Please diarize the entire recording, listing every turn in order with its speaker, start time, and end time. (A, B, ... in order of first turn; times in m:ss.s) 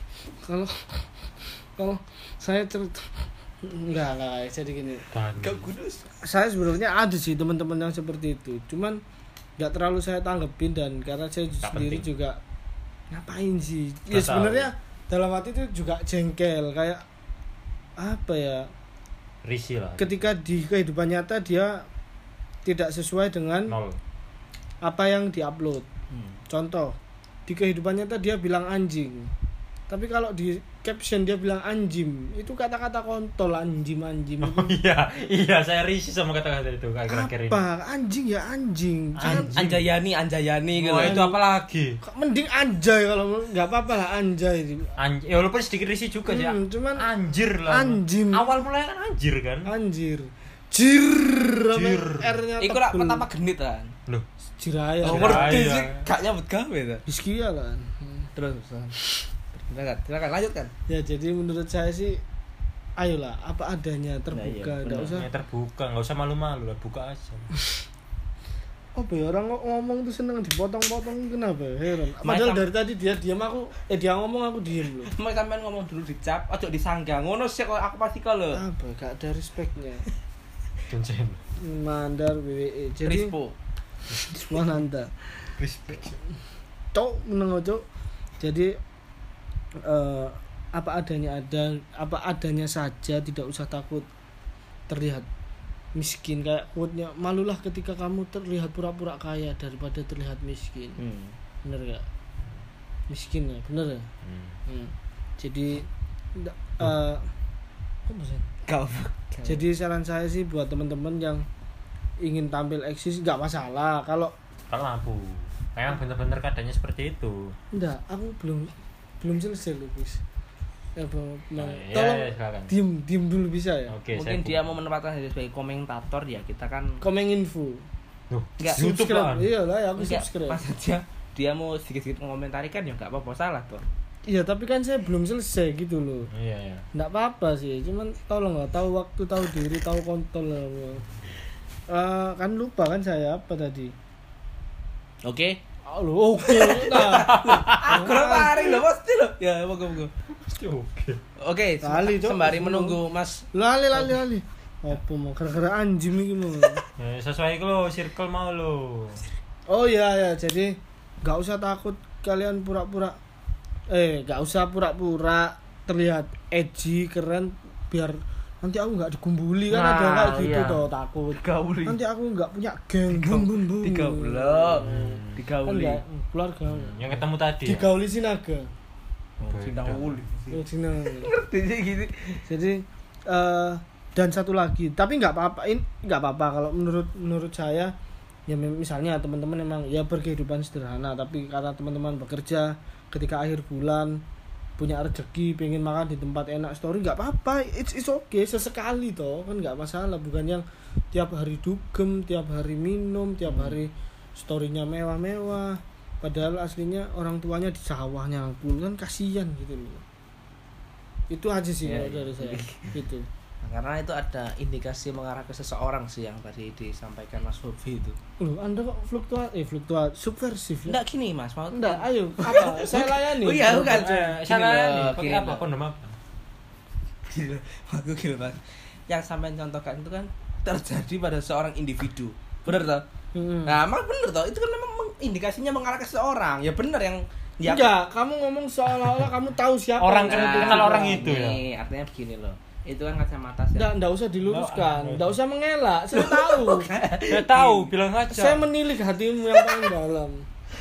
0:00.4-0:01.1 A
0:01.8-0:05.1 A
0:05.1-0:05.7 B
0:05.4-0:06.1 C
0:06.2-0:09.0 A
0:09.6-0:12.4 A
0:11.6-0:12.0 B
0:13.1-0:17.0 A
0:14.1-0:14.7 B
0:18.0-0:18.7 A
0:19.4-0:20.2 B
0:20.0-0:21.8 A
0:22.6-0:23.8 A
0:23.7-0:24.0 B
0:24.8-0:25.8 A
0:26.1-0:26.4 C
0:26.5-0:27.0 A
0:27.5-0:29.3 A
0:29.9-0:34.7 A
0:34.4-0:37.6 B
0:37.1-0:39.6 A
0:39.2-0:39.9 B
0:39.2-0:41.2 C
0:40.8-0:42.0 B
0:41.0-0:41.4 A
0:42.0-0:44.9 A
0:45.0-0:49.7 B
0:46.3-0:47.1 A
0:47.7-0:48.5 A
0:49.6-0:53.2 A
0:51.7-0:52.4 B
0:52.6-0:53.9 C
0:54.6-0:55.8 A
0:55.0-0:57.0 C
0:55.0-0:56.0 B
0:57.0-0:58.3 A
0:58.4-0:59.0 C
0:59.5-1:00.7 C
1:00.9-1:02.2 A
1:03.0-1:05.3 A
1:04.3-1:05.2 C
1:05.0-1:07.5 B
1:08.9-1:15.1 A
1:12.2-1:12.6 C
1:15.1-1:18.6 C
1:18.5-1:20.0 A
1:20.9-1:21.4 B
1:21.6-1:23.3 A
1:23.0-1:23.6 C
1:24.3-1:25.1 A
1:25.6-1:26.2 B
1:26.9-1:27.8 A
1:28.4-1:28.8 A
1:29.8-1:34.1 A
1:34.9-1:35.3 A
1:35.9-1:41.0 A
1:41.0-1:41.3 C
1:41.6-1:42.0 A
1:43.1-1:44.1 A
1:44.2-1:44.6 B
1:44.7-1:47.3 A
1:48.1-1:48.5 A
1:48.6-1:49.6 C
1:49.4-1:51.4 A
1:52.2-1:54.3 A
1:54.7-1:57.5 B
1:57.7-2:00.2 A
2:01.0-2:04.0 A
2:01.6-2:02.7 B
2:03.9-2:04.7 B
2:04.1-2:07.0 C
2:07.0-2:07.8 A
2:08.3-2:09.5 B
2:08.7-2:10.6 A
2:10.0-2:13.8 C
2:14.2-2:16.3 A
2:16.3-2:16.8 B
2:16.9-2:21.0 A
2:21.9-2:23.9 A
2:25.2-2:25.6 C
2:25.8-2:28.8 A
2:26.4-2:30.1 C
2:27.3-2:28.0 B
2:30.4-2:31.2 B
2:31.4-2:33.5 C
2:31.8-2:33.0 A
2:33.5-2:36.8 A
2:37.0-2:39.2 B
2:39.7-2:43.2 A
2:43.9-2:58.7 A
2:49.7-2:50.8 C
2:51.4-2:52.0 C
2:53.1-2:56.0 C
2:54.8-2:55.4 B
2:56.7-2:57.9 B
2:59.4-3:02.4 C
2:59.4-3:00.2 B
3:00.5-3:01.3 A
3:02.4-3:07.9 A
3:08.5-3:14.2 A
3:14.8-3:30.0 A
3:23.5-3:23.8 C
3:31.3-3:33.3 A
3:31.8-3:32.9 C
3:33.6-3:38.2 C
3:38.4-3:41.0 A
3:40.9-3:45.6 C
3:41.7-3:44.2 A
3:43.7-3:46.2 B
3:47.3-3:53.0 C
3:53.3-3:53.8 A
3:53.6-3:57.9 C
3:57.6-4:01.4 A
4:00.0-4:01.6 B
4:00.3-4:03.9 C
4:03.8-4:06.9 A
4:04.4-4:05.3 B
4:06.1-4:07.9 C
4:07.3-4:08.6 B
4:08.3-4:10.4 A
4:09.6-4:09.8 C